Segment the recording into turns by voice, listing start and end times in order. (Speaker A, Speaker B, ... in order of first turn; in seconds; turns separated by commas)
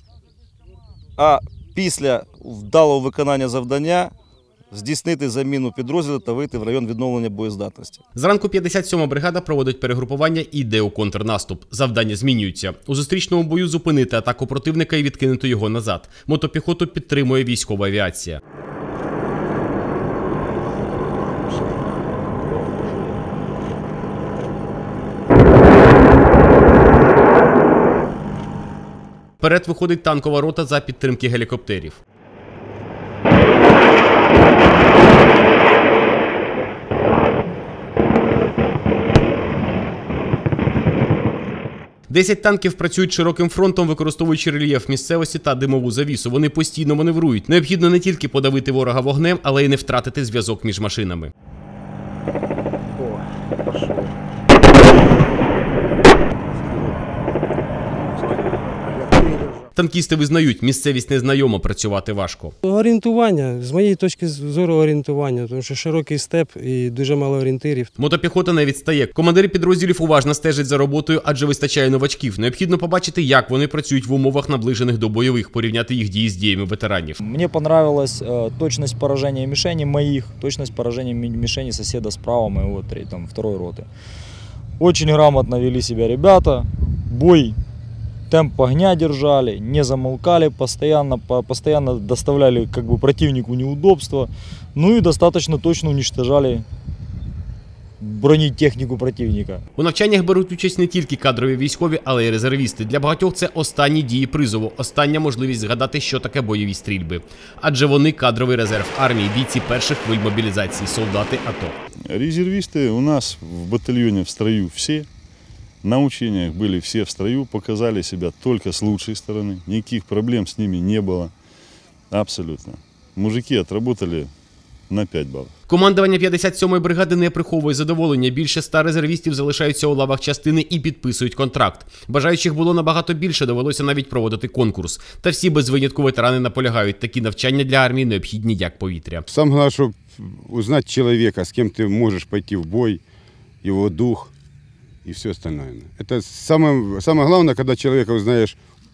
Speaker A: 1.2-4.1, Speaker A: 4.7-8.0, Speaker B: 8.1-18.4, Speaker B: 29.4-32.0, Speaker B: 42.1-51.3, Speaker B: 59.8-62.5, Speaker C: 62.6-67.9, Speaker B: 68.0-77.2, Speaker D: 77.2-83.9, Speaker D: 84.8-87.6, Speaker D: 88.3-96.7, Speaker D: 98.0-99.6, Speaker B: 99.8-111.8, Speaker E: 112.1-115.1, Speaker E: 115.8-121.3, Speaker E: 122.1-124.3, Speaker E: 124.9-125.5, Speaker B: 125.7-139.2, Speaker F: 139.3-143.0, Speaker F: 143.6-144.3, Speaker F: 145.0-148.6